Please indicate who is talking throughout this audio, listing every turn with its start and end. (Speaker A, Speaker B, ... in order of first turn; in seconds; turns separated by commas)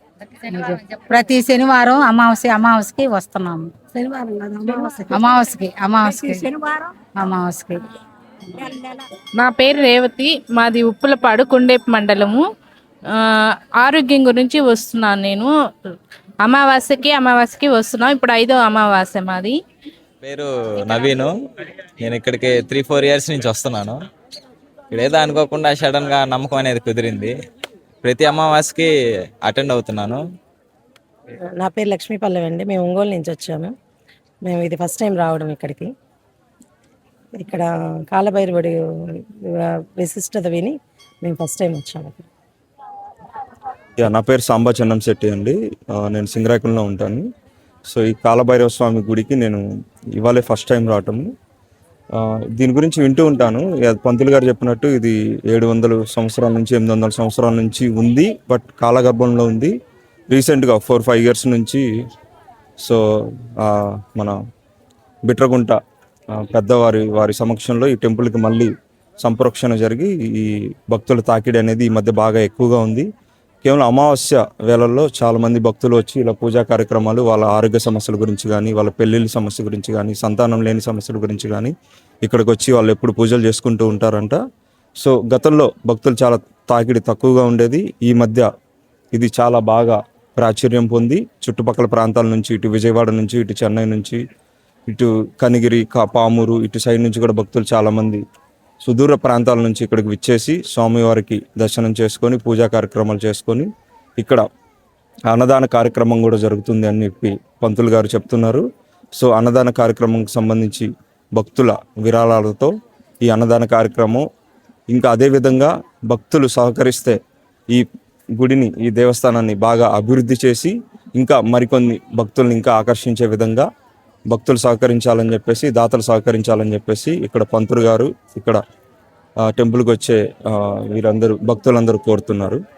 Speaker A: 0.5-3.7, Speaker B: 3.9-5.2, Speaker A: 5.1-6.5, Speaker B: 6.1-6.8, Speaker A: 7.2-7.8, Speaker A: 8.6-8.9, Speaker C: 9.4-12.4, Speaker C: 13.1-15.5, Speaker C: 16.4-19.6, Speaker D: 20.2-21.3, Speaker D: 22.0-24.0, Speaker D: 24.9-27.3, Speaker D: 28.0-28.9, Speaker D: 29.4-30.2, Speaker E: 31.6-33.7, Speaker E: 34.4-35.9, Speaker E: 37.4-38.8, Speaker E: 39.6-42.3, Speaker F: 44.0-47.2, Speaker F: 47.9-49.6, Speaker F: 50.1-51.3, Speaker F: 52.1-59.7, Speaker F: 60.3-61.8, Speaker F: 63.6-64.3, Speaker F: 65.3-65.8, Speaker F: 66.3-68.7, Speaker F: 69.2-73.1, Speaker F: 73.6-81.7, Speaker F: 82.2-84.4, Speaker F: 85.0-88.5, Speaker F: 89.1-94.2, Speaker F: 94.9-98.2, Speaker F: 98.8-104.4, Speaker F: 105.3-108.6, Speaker F: 109.2-112.7, Speaker F: 113.2-114.2, Speaker F: 114.9-117.2, Speaker F: 118.4-123.7, Speaker F: 124.3-128.6, Speaker F: 129.5-132.6